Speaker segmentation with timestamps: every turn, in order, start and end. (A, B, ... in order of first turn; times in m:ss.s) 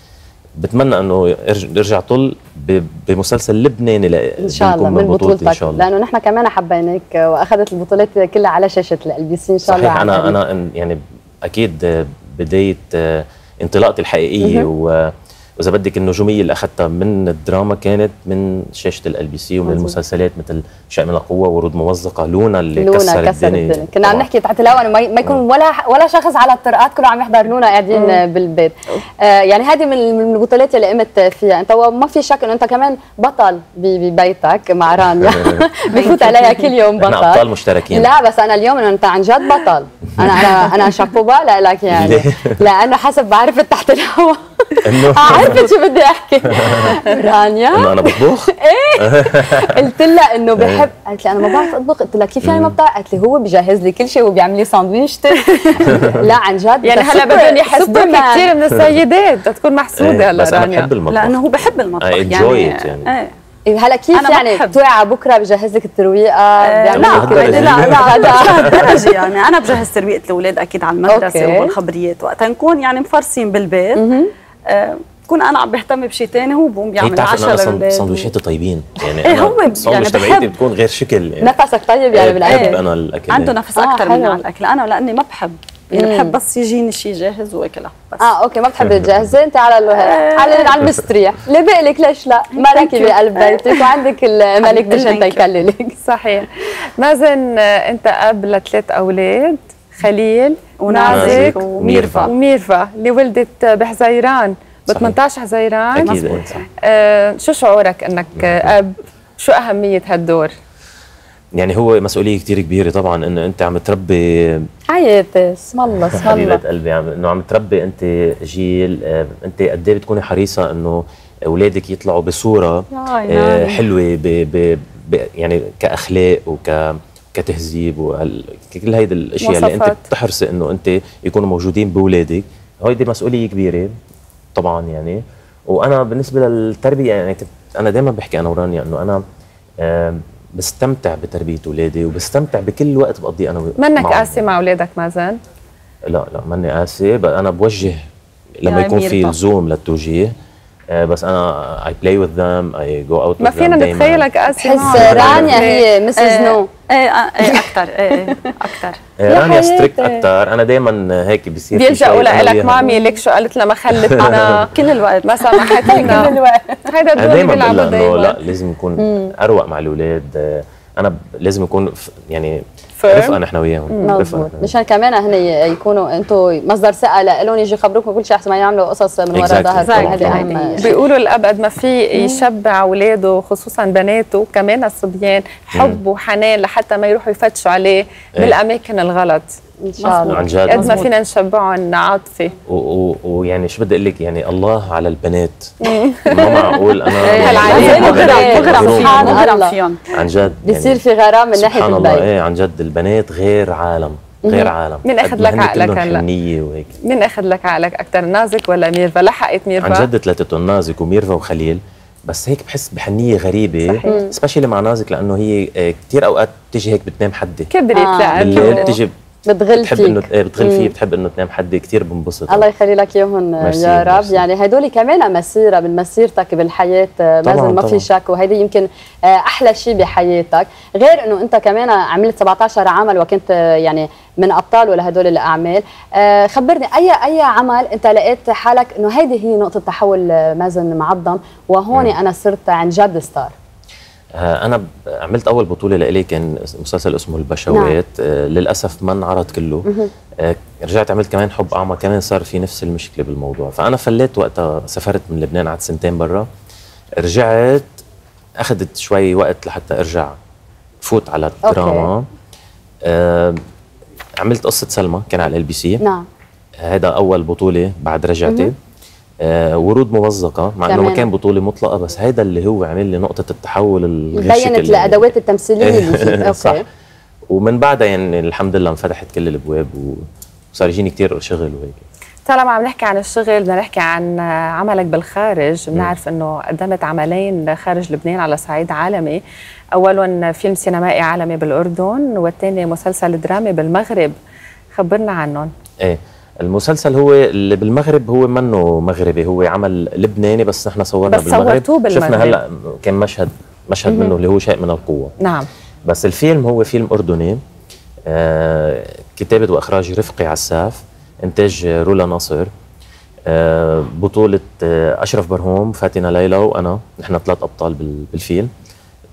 0:00.6-0:05.8 A
0:04.4-0:10.4 B
0:09.6-0:24.3 A
0:14.4-0:14.7 B
0:19.7-0:20.0 B
0:22.8-0:58.5 B
0:35.9-0:36.6 C
0:37.0-0:38.1 A
0:41.9-0:42.6 A
0:44.9-0:45.7 A
0:46.5-0:47.0 A
0:47.7-0:49.8 A
0:50.6-0:50.9 A
0:52.4-0:52.8 A
0:56.8-1:00.9 D
1:00.0-1:03.1 A
1:01.1-1:03.3 C
1:03.7-1:09.0 B
1:04.1-1:04.8 C
1:06.6-1:14.0 C
1:06.9-1:09.1 A
1:11.1-1:11.7 B
1:14.0-1:14.3 B
1:14.7-1:18.3 C
1:17.0-1:21.6 A
1:19.2-1:20.6 C
1:21.4-1:22.8 B
1:22.1-1:23.6 A
1:22.4-1:22.8 C
1:23.3-1:28.3 C
1:23.8-1:24.4 B
1:25.9-1:26.4 B
1:28.2-1:36.0 B
1:30.0-1:30.8 C
1:32.6-1:34.0 C
1:34.6-1:35.5 C
1:36.0-1:41.6 D
1:40.8-1:42.3 C
1:41.1-1:42.3 A
1:42.2-1:46.2 D
1:44.9-1:45.2 A
1:46.0-1:46.6 A
1:46.0-1:46.6 C
1:46.8-1:50.5 D
1:48.4-1:48.7 A
1:51.6-1:54.6 A
1:54.9-1:56.6 B
1:56.1-2:13.9 A
2:03.0-2:03.8 C
2:09.4-2:10.0 D
2:14.6-2:19.2 A
2:19.8-2:24.5 A
2:23.8-2:25.4 D
2:26.1-2:28.1 A
2:28.6-2:30.3 A
2:28.7-2:29.4 C
2:30.9-2:34.3 A
2:33.4-2:35.8 D
2:34.6-2:36.7 B
2:34.8-2:35.5 C
2:34.9-2:35.6 A
2:36.2-2:39.0 C
2:39.2-2:42.9 A
2:39.3-2:40.2 B
2:41.8-2:44.7 D
2:42.8-2:43.2 B
2:43.9-2:44.4 A
2:44.2-2:46.1 C
2:45.2-2:46.4 D
2:45.6-2:46.8 B
2:46.9-2:48.4 D
2:47.2-2:54.7 A
2:49.0-2:49.3 B
2:53.0-2:53.4 D
2:53.9-2:54.2 D
2:54.0-3:00.9 B
2:59.3-3:00.5 A
2:59.8-3:00.9 C
3:00.0-3:09.5 D
3:02.2-3:02.4 B
3:05.8-3:06.0 A
3:09.8-3:10.4 B
3:10.0-3:11.1 C
3:10.3-3:11.1 A
3:10.7-3:12.5 D
3:12.7-3:15.7 A
3:15.8-3:16.5 D
3:16.3-3:19.5 A
3:17.3-3:20.0 C
3:17.3-3:18.9 D
3:17.6-3:19.8 B
3:20.1-3:21.0 A
3:20.6-3:22.3 B
3:21.6-3:26.9 A
3:24.4-3:24.7 B
3:25.0-3:26.2 D
3:27.0-3:30.1 D
3:29.8-3:37.7 A
3:33.8-3:34.2 D
3:34.0-3:34.4 B
3:37.7-3:39.0 D
3:37.9-3:38.9 B
3:38.4-3:39.1 A
3:39.5-3:40.9 B
3:39.7-3:42.7 A
3:42.5-4:03.5 B
3:43.6-3:44.4 A
3:47.4-3:48.1 A
4:04.4-4:16.5 A
4:07.7-4:08.0 B
4:09.9-4:10.1 B
4:17.2-4:17.9 A
4:18.6-4:20.4 A
4:21.0-4:22.2 A
4:21.6-4:22.1 B
4:23.1-4:23.6 A
4:24.4-4:26.0 A
4:26.0-4:26.3 B
4:26.8-4:28.8 A
4:28.5-4:28.7 B
4:29.4-4:35.3 A
4:30.9-4:31.3 B
4:34.3-4:36.8 B
4:35.8-4:36.8 A
4:37.5-4:42.0 A
4:42.5-4:49.4 D
4:49.9-4:54.4 D
4:54.9-4:55.7 D
4:56.0-5:05.3 A
5:01.3-5:02.6 D
5:04.1-5:04.3 B
5:05.4-5:05.7 D
5:06.1-5:07.6 A
5:08.3-5:12.7 A
5:13.5-5:18.7 A